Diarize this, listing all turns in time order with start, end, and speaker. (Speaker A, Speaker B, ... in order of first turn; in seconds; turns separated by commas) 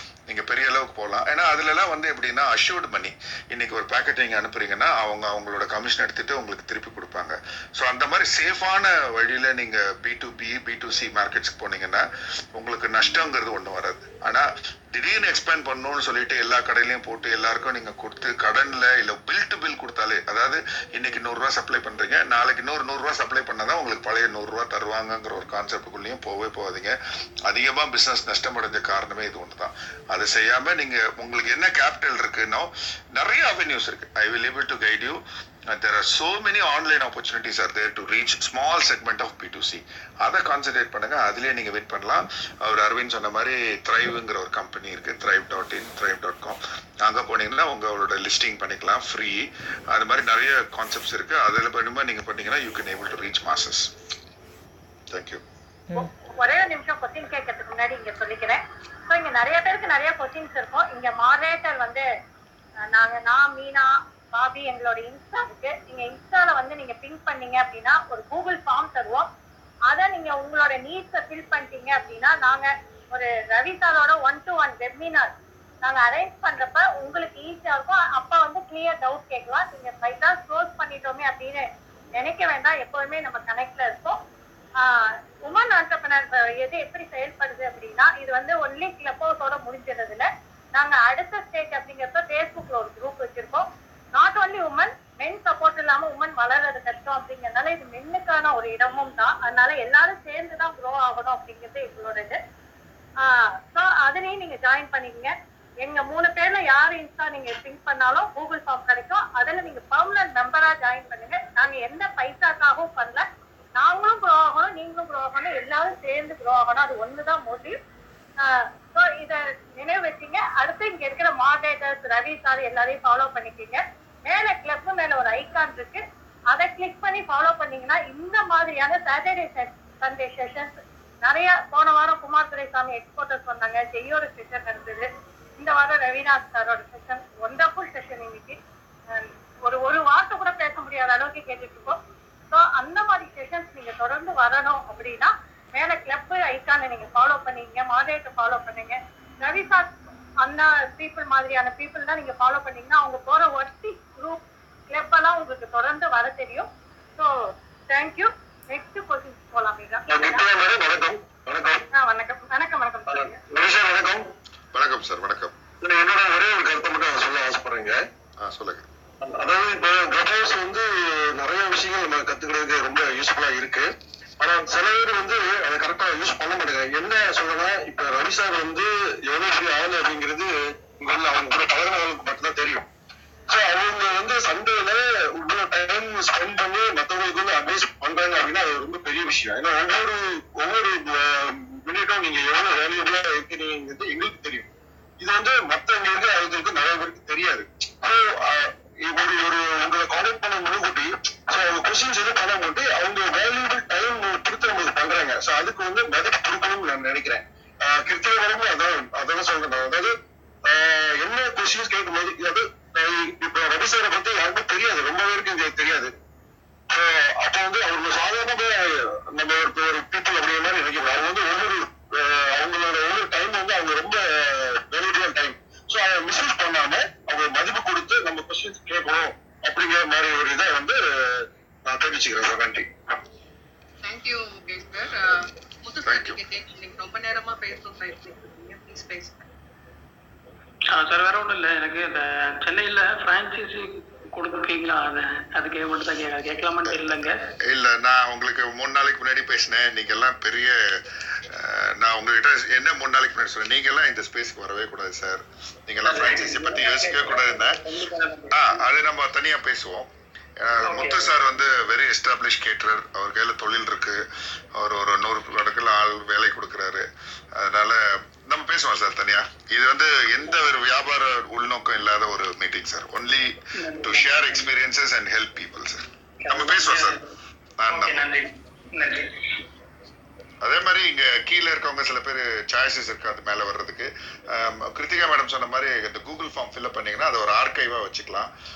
Speaker A: 0.3-26.9, Speaker A: 27.5-53.9, Speaker A: 55.1-55.4, Speaker B: 55.9-62.0, Speaker B: 62.9-69.3, Speaker B: 69.9-75.3, Speaker B: 75.8-84.2, Speaker B: 84.8-102.4, Speaker B: 103.2-113.2, Speaker B: 113.8-117.7, Speaker B: 118.4-135.1, Speaker B: 135.6-138.6, Speaker B: 139.1-142.0, Speaker B: 142.5-157.3, Speaker B: 157.9-160.4, Speaker C: 160.1-161.8, Speaker B: 161.9-163.4, Speaker C: 163.1-164.3, Speaker A: 164.7-165.5, Speaker C: 165.8-168.0, Speaker A: 168.4-168.8, Speaker C: 169.2-173.8, Speaker C: 174.4-182.8, Speaker C: 183.5-194.7, Speaker C: 195.2-210.1, Speaker C: 210.6-216.1, Speaker C: 216.9-231.0, Speaker C: 231.8-233.1, Speaker D: 234.0-239.5, Speaker A: 236.0-236.4, Speaker E: 240.9-247.3, Speaker A: 247.7-251.0, Speaker A: 251.5-257.8, Speaker A: 258.5-260.1, Speaker A: 260.6-264.2, Speaker A: 264.7-277.2, Speaker E: 273.8-274.5, Speaker E: 276.4-277.2, Speaker A: 277.8-278.3, Speaker E: 277.9-279.3, Speaker A: 280.6-288.5